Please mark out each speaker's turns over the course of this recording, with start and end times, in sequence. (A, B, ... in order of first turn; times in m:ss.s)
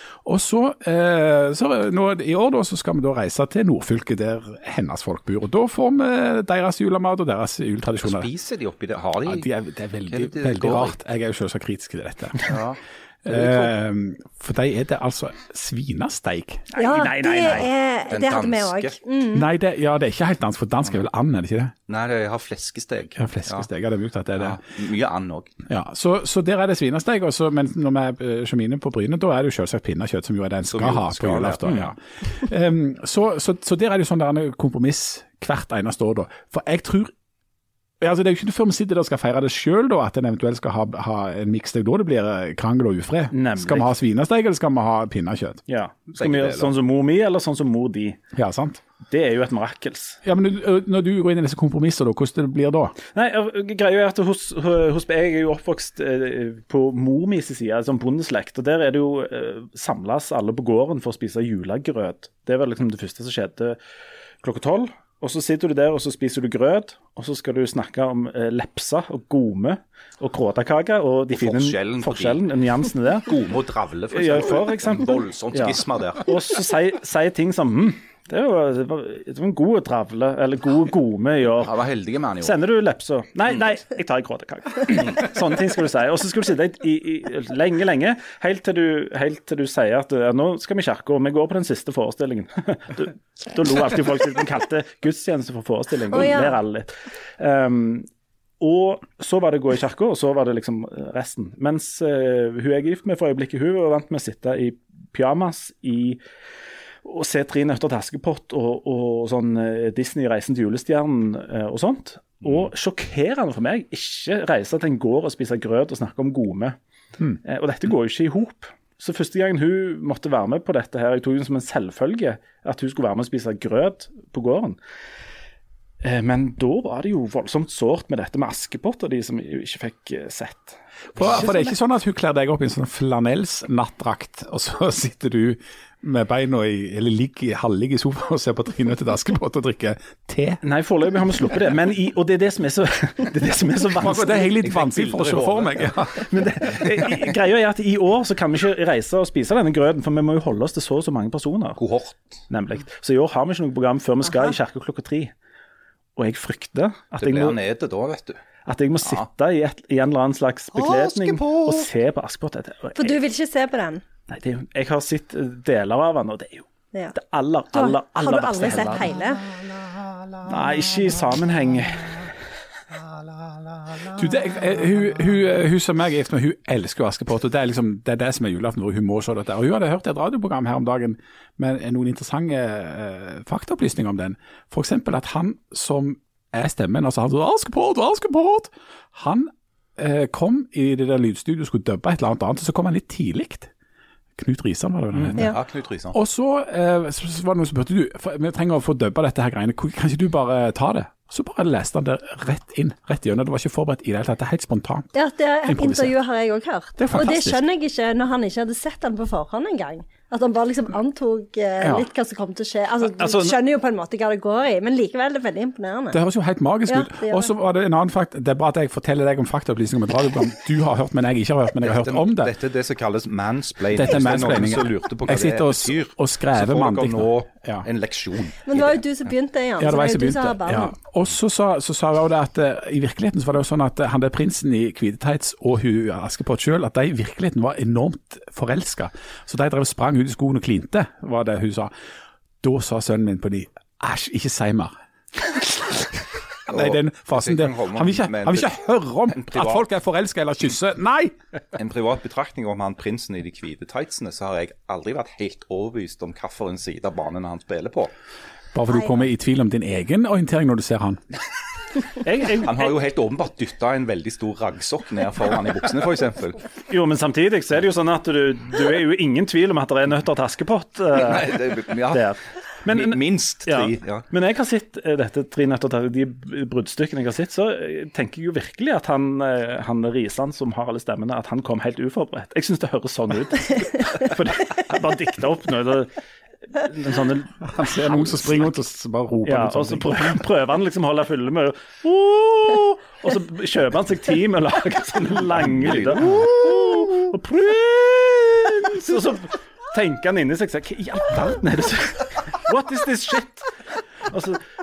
0:00.2-0:08.3 A
0:08.0-0:09.5 B
0:09.2-0:12.6 A
0:10.1-0:11.0 B
0:12.4-0:13.7 B
0:13.2-0:16.7 A
0:16.7-0:17.7 C
0:16.8-0:19.5 D
0:18.1-0:19.0 B
0:19.3-0:21.7 A
0:21.9-0:23.7 B
0:23.2-0:24.6 A
0:24.4-0:25.6 B
0:25.7-0:37.1 A
0:30.7-0:31.9 B
0:38.0-0:45.6 A
0:43.3-0:43.9 C
0:45.7-0:48.2 C
0:46.1-0:46.7 B
0:48.3-0:48.8 A
0:49.1-0:50.2 C
0:50.2-0:53.0 A
0:53.1-1:03.8 C
1:04.4-1:13.3 C
1:11.3-1:12.4 B
1:13.2-1:16.3 B
1:14.1-1:21.8 C
1:21.6-1:22.6 B
1:22.4-1:38.1 C
1:36.1-1:36.6 D
1:38.6-1:46.2 C
1:47.0-1:56.8 C
1:57.4-2:04.8 C
2:06.0-2:11.7 C
2:11.2-2:20.6 A
2:20.6-2:24.5 C
2:24.0-2:26.3 A
2:24.5-2:26.1 B
2:26.2-2:31.8 C
2:31.8-2:32.4 B
2:32.5-2:35.3 C
2:36.2-2:37.6 C
2:37.2-2:38.4 B
2:38.7-2:43.2 C
2:40.8-2:41.9 B
2:43.0-2:44.0 D
2:44.3-2:49.1 C
2:47.7-2:49.6 D
2:50.4-2:52.3 C
2:54.0-3:13.7 A
3:14.4-3:15.6 A
3:15.3-3:16.2 B
3:16.1-3:25.1 A
3:25.1-3:36.2 D
3:25.7-3:26.1 A
3:27.0-3:27.6 A
3:31.8-3:32.1 A
3:33.1-3:33.6 C
3:36.1-3:42.5 A
3:36.9-3:37.5 D
3:41.8-3:49.0 B
3:43.9-3:47.9 A
3:48.7-3:51.0 D
3:49.8-4:01.9 A
4:02.6-4:04.9 A
4:05.5-4:11.4 A
4:06.7-4:08.8 B
4:09.3-4:09.8 B
4:11.8-4:18.1 B
4:18.7-4:21.2 A
4:22.2-4:23.0 C
4:22.6-4:26.6 B
4:26.9-4:46.2 C
4:31.2-4:32.3 B
4:32.9-4:34.2 B
4:46.7-4:48.5 C
4:47.6-4:50.4 A
4:49.4-5:03.7 C
4:55.8-4:56.4 B
5:04.3-5:04.6 C